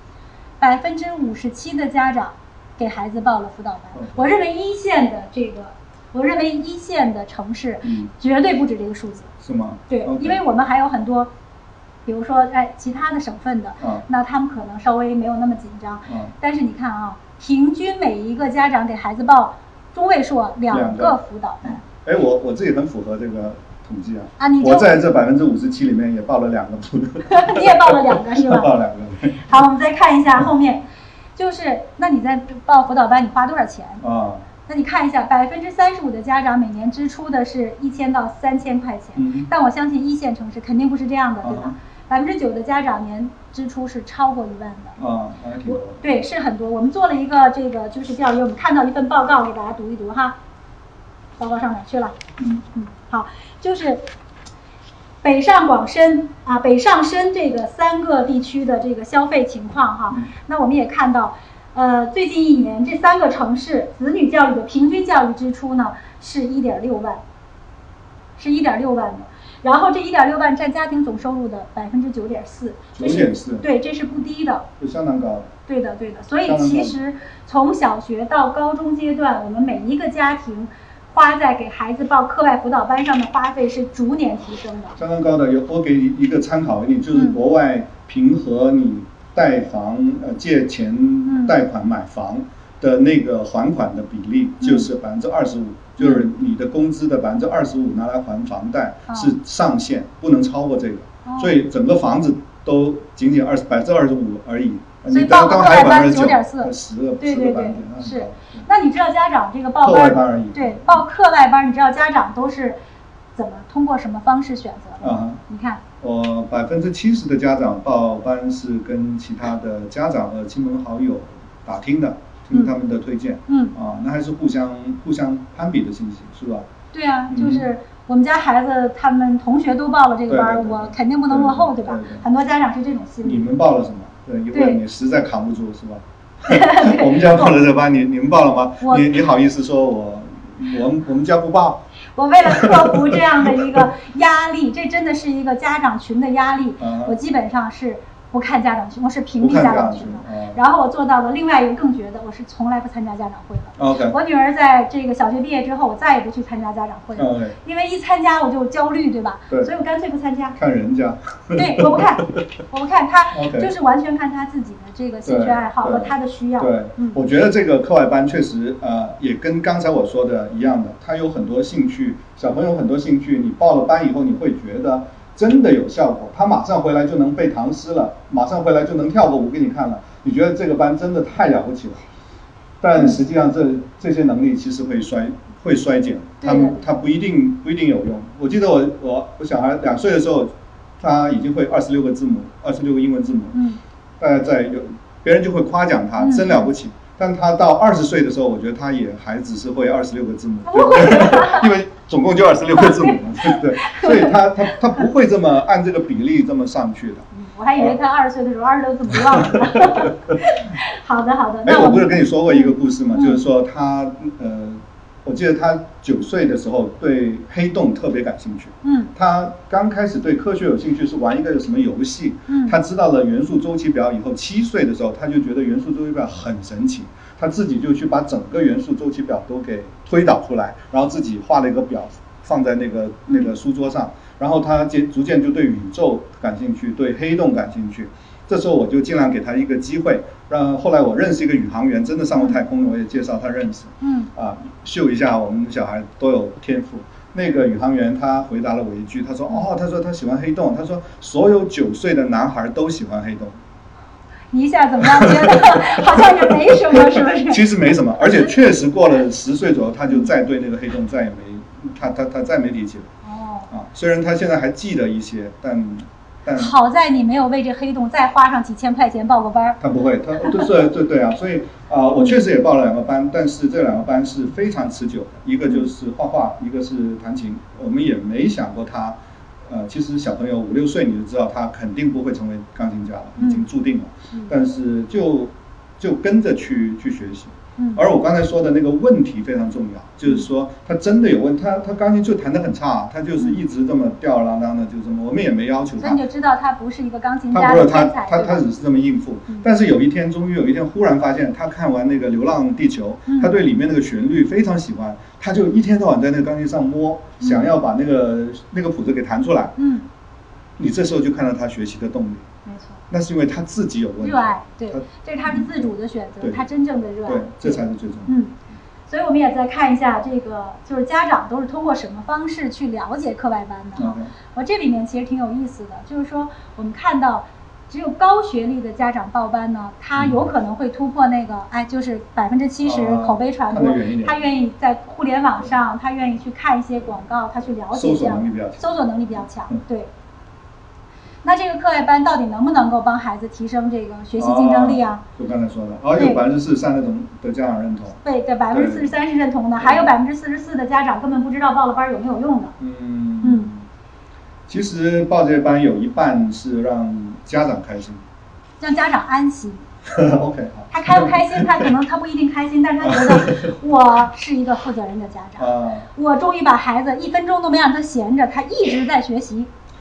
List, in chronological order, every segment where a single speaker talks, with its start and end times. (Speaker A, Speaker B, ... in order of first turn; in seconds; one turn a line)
Speaker A: 0.6-9.3
Speaker B: 3.9-4.3
Speaker B: 7.8-8.1
Speaker B: 9.4-10.4
Speaker A: 9.9-11.3
Speaker A: 12.0-21.8
Speaker B: 16.1-16.3
Speaker B: 20.7-29.5
Speaker A: 24.4-25.0
Speaker A: 27.3-28.7
Speaker A: 29.4-30.8
Speaker A: 31.4-34.0
Speaker B: 34.0-34.4
Speaker A: 34.6-45.0
Speaker B: 39.1-39.5
Speaker B: 41.4-41.7
Speaker B: 45.0-46.1
Speaker A: 45.6-50.4
Speaker A: 51.4-52.2
Speaker B: 52.4-52.6
Speaker A: 52.7-54.0
Speaker A: 55.2-67.2
Speaker A: 68.4-74.7
Speaker B: 73.0-73.6
Speaker B: 74.8-75.5
Speaker A: 75.7-85.0
Speaker B: 76.5-77.0
Speaker B: 85.0-108.7
Speaker A: 91.2-91.5
Speaker A: 94.6-94.9
Speaker A: 96.0-96.3
Speaker A: 99.1-99.3
Speaker A: 101.2-101.5
Speaker A: 105.1-112.8
Speaker B: 109.8-111.0
Speaker A: 113.3-115.8
Speaker B: 115.0-115.4
Speaker B: 116.0-126.7
Speaker A: 123.5-123.7
Speaker A: 126.9-133.4
Speaker B: 127.3-127.7
Speaker B: 130.3-132.2
Speaker B: 133.2-141.8
Speaker A: 134.5-134.8
Speaker A: 136.4-137.5
Speaker A: 138.8-139.1
Speaker A: 142.1-160.6
Speaker B: 142.5-143.2
Speaker B: 146.8-147.2
Speaker B: 149.4-150.6
Speaker B: 153.8-154.2
Speaker B: 157.2-157.6
Speaker B: 160.6-162.1
Speaker A: 161.5-167.2
Speaker B: 163.3-163.7
Speaker B: 165.2-182.0
Speaker B: 182.8-193.6
Speaker A: 186.4-186.8
Speaker A: 193.5-193.8
Speaker B: 194.2-207.2
Speaker A: 196.2-196.7
Speaker A: 200.7-201.7
Speaker A: 202.7-205.0
Speaker A: 207.3-213.4
Speaker B: 209.5-210.1
Speaker B: 211.6-253.6
Speaker A: 218.8-219.1
Speaker A: 222.5-222.8
Speaker A: 242.4-242.6
Speaker A: 244.0-244.3
Speaker A: 254.5-257.6
Speaker B: 255.0-263.1
Speaker A: 263.2-263.7
Speaker B: 263.7-266.7
Speaker A: 266.5-269.8
Speaker B: 269.8-279.2
Speaker A: 270.4-270.7
Speaker A: 275.6-275.9
Speaker B: 279.7-296.2
Speaker A: 283.4-283.7
Speaker A: 287.8-288.0
Speaker A: 296.0-298.6
Speaker B: 297.5-309.7
Speaker A: 303.3-303.5
Speaker A: 307.4-307.7
Speaker A: 309.8-310.1
Speaker B: 310.8-312.4
Speaker A: 312.6-313.0
Speaker B: 313.1-316.6
Speaker A: 314.2-318.5
Speaker B: 317.2-318.3
Speaker A: 319.1-340.1
Speaker B: 324.0-324.3
Speaker B: 330.1-330.4
Speaker B: 332.8-334.4
Speaker B: 337.9-338.9
Speaker A: 341.4-345.2
Speaker B: 344.4-348.2
Speaker A: 346.1-346.4
Speaker A: 348.2-352.7
Speaker B: 348.7-349.1
Speaker B: 349.8-350.1
Speaker B: 352.8-353.9
Speaker A: 353.4-353.7
Speaker B: 354.7-358.2
Speaker A: 358.8-359.8
Speaker B: 360.1-361.9
Speaker A: 360.9-369.7
Speaker B: 363.0-363.7
Speaker B: 365.6-366.1